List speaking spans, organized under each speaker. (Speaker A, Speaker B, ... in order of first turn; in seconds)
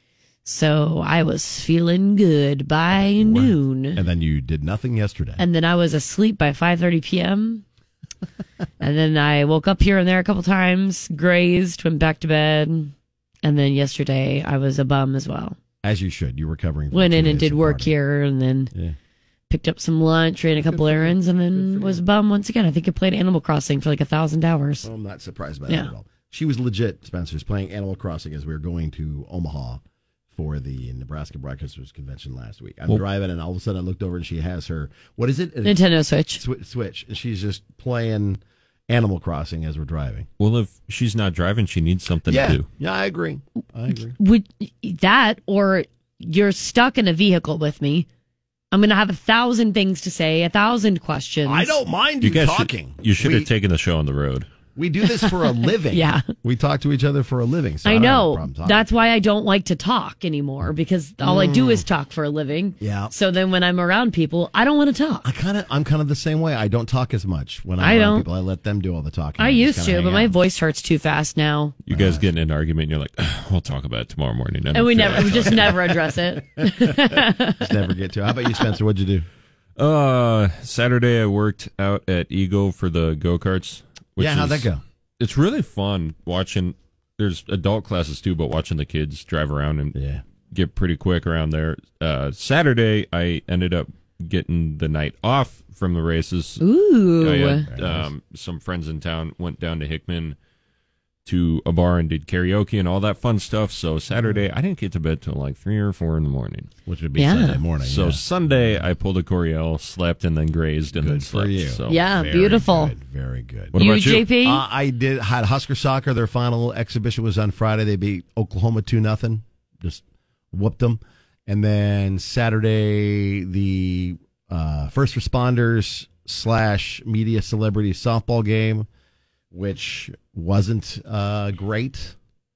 Speaker A: 0.4-4.0, 5.4-7.6, 8.8-12.9, 13.4-15.6, 16.9-18.7, 19.5-24.9, 35.6-36.4, 44.2-48.1, 48.7-51.8, 55.9-56.3, 57.8-65.2, 67.8-68.2, 69.4-71.8, 74.7-77.7, 96.6-97.7, 107.2-107.6, 111.9-112.9, 113.8-114.6
Speaker B: 3.0-5.4, 15.8-17.9, 20.6-22.0, 24.8-29.8, 30.3-35.8, 36.4-40.3, 42.3-44.1, 51.4-53.5, 54.8-58.9, 61.2-61.9, 62.8-63.1, 65.2-70.3, 71.9-72.2, 75.2-79.2, 84.2-84.8, 89.9-90.2, 97.7-98.1, 104.2-104.4, 106.9-108.9, 111.0-128.9, 129.5-132.1
Speaker C: 40.4-42.6, 52.2-54.5, 71.8-75.8, 79.8-84.7, 85.2-89.9, 90.5-96.6, 97.2-100.3, 101.2-106.7, 107.8-112.0, 113.7-114.2